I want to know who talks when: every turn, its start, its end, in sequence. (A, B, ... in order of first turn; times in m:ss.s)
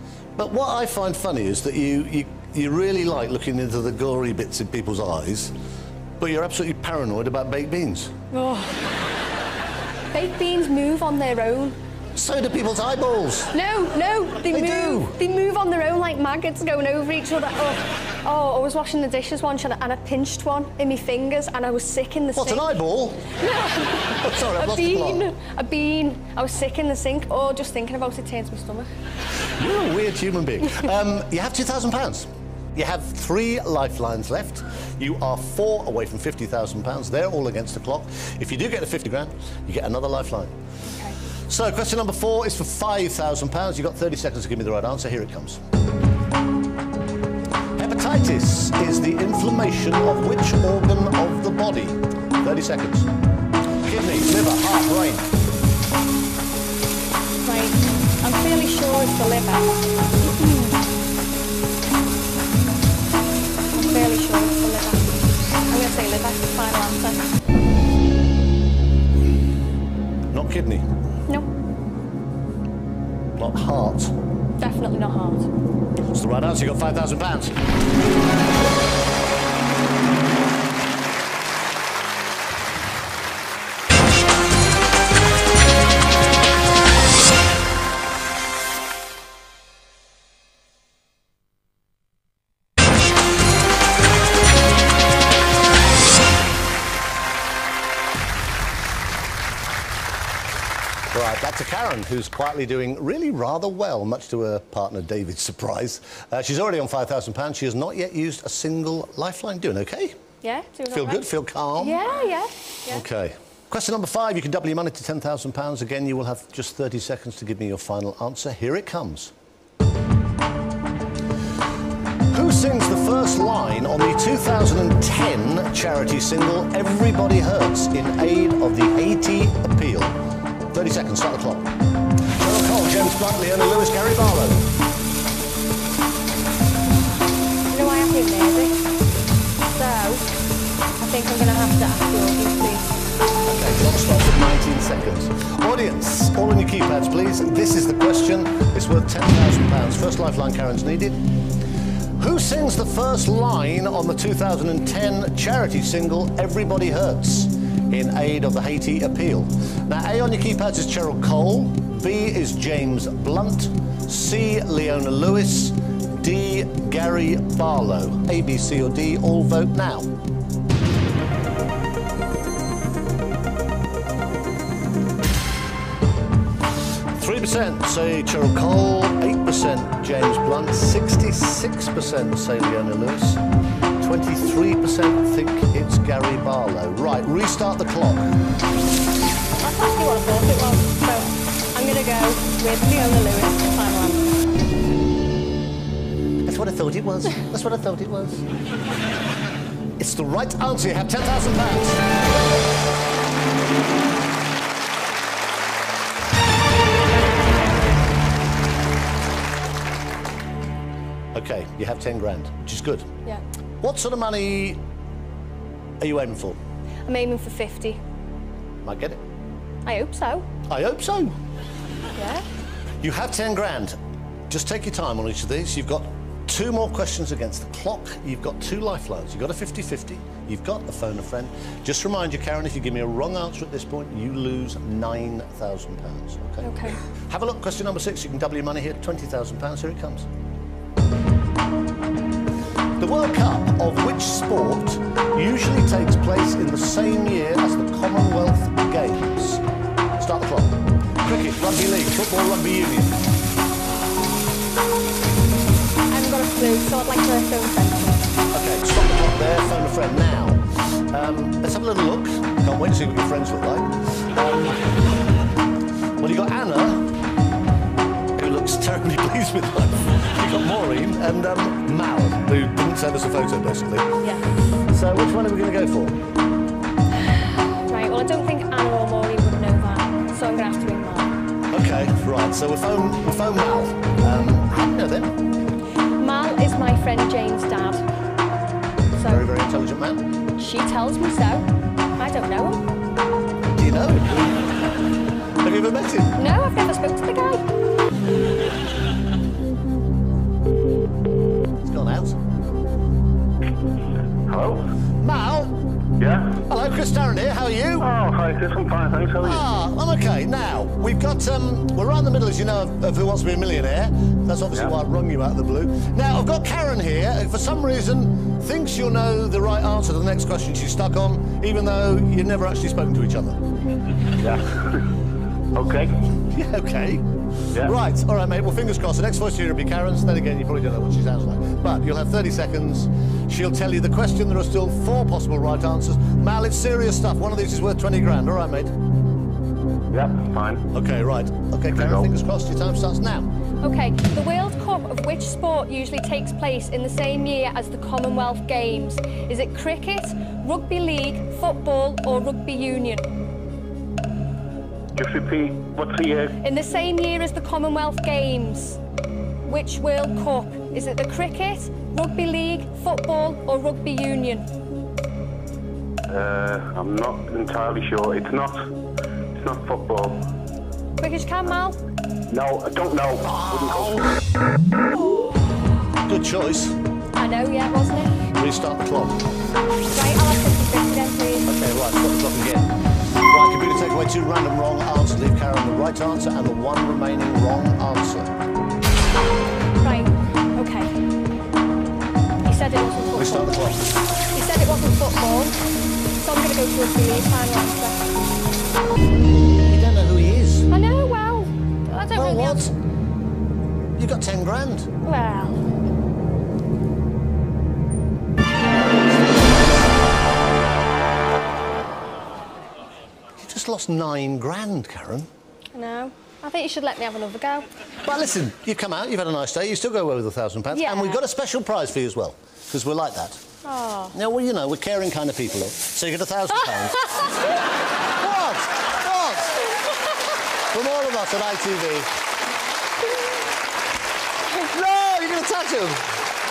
0:00.4-0:05.5 A
0:06.2-0:08.1 A
0:08.3-0:08.8 B
0:10.1-0:11.8 B
0:12.1-0:13.6 A
0:13.5-0:22.8 B
0:14.5-0:15.2 A
0:22.4-0:23.4 A
0:23.3-0:28.9 B
0:24.1-0:25.3 A
0:29.4-0:40.5 A
0:40.8-0:41.2 B
0:41.5-0:45.6 A
0:47.8-0:53.1 A
0:53.8-0:55.3 A
0:57.4-1:00.8 B
1:03.7-1:07.3 B
1:10.3-1:10.9 A
1:13.4-1:14.1 A
1:14.6-1:15.5 B
1:16.1-1:17.6 A
1:41.1-1:50.2 A
1:50.4-1:51.2 B
1:50.9-1:52.0 A
1:51.8-1:53.0 B
1:52.8-1:59.3 A
2:02.3-2:10.2 A
2:10.7-2:11.7 A
2:12.3-2:14.7 A
2:17.7-2:18.8 B
2:19.6-2:20.3 B
2:21.0-2:23.0 B
2:23.4-2:31.2 A
2:32.2-2:50.1 A
2:57.1-3:03.4 A
3:04.0-3:08.3 A
3:09.6-3:14.3 B
3:16.4-3:18.4 A
3:20.0-3:22.0 A
3:31.3-3:33.1 A
3:33.8-3:34.8 A
3:36.0-3:36.6 A
3:37.0-3:38.0 B
3:38.8-3:39.2 A
3:39.8-3:40.5 B
3:40.7-3:41.4 A
3:42.1-3:42.4 B
3:43.0-3:44.0 A
3:44.5-4:00.3 A
3:56.6-3:57.0 B
4:03.0-4:09.6 A
4:10.2-4:13.2 A
4:16.1-4:18.3 B
4:18.5-4:24.9 A
4:26.2-4:27.0 A
4:28.4-4:34.1 A
4:34.2-4:34.6 B
4:34.9-4:36.2 A
4:37.3-4:41.4 B
4:41.7-4:45.4 A
4:46.2-4:48.0 B
4:49.2-4:49.5 B
4:49.2-4:50.2 A
4:50.6-4:51.6 B
4:52.2-4:52.8 B
4:53.7-4:54.6 A
4:55.6-4:56.4 A
4:56.3-4:57.6 B
5:01.8-5:02.4 A
5:04.5-5:04.9 C
5:05.2-5:05.7 A
5:06.2-5:06.6 C
5:06.7-5:08.1 A
5:08.0-5:09.6 C
5:09.4-5:23.6 A
5:24.4-5:25.0 C
5:25.7-5:26.2 C
5:26.4-5:27.2 A
5:27.8-5:38.9 A
5:40.1-5:40.8 C
5:40.9-5:43.5 A
5:41.9-5:42.3 C
5:43.8-5:53.3 B
5:55.1-5:56.6 C
5:56.6-5:59.0 B
5:59.6-6:04.7 B
6:06.3-6:08.9 C
6:09.5-6:10.4 C
6:11.2-6:12.0 B
6:12.5-6:14.3 C
6:13.4-6:14.3 A
6:16.2-6:17.0 A
6:17.4-6:18.5 B
6:18.5-6:19.4 A
6:20.1-6:21.7 B
6:21.6-6:22.9 A
6:23.5-6:28.6 A
6:30.0-6:31.2 B
6:32.6-6:33.7 B
6:33.4-6:34.1 A
6:34.5-6:35.8 B
6:36.4-6:38.3 B
6:39.8-6:40.9 A
6:40.9-6:42.9 B
6:42.3-6:42.9 A
6:44.2-6:45.1 A
6:45.2-6:45.8 B
6:53.6-6:55.5 A
6:55.9-6:57.9 B
6:58.2-7:03.6 A
7:00.9-7:01.4 B
7:03.8-7:04.3 B
7:04.3-7:07.6 A
7:08.4-7:10.0 A
7:10.9-7:12.3 A
7:14.7-7:16.2 A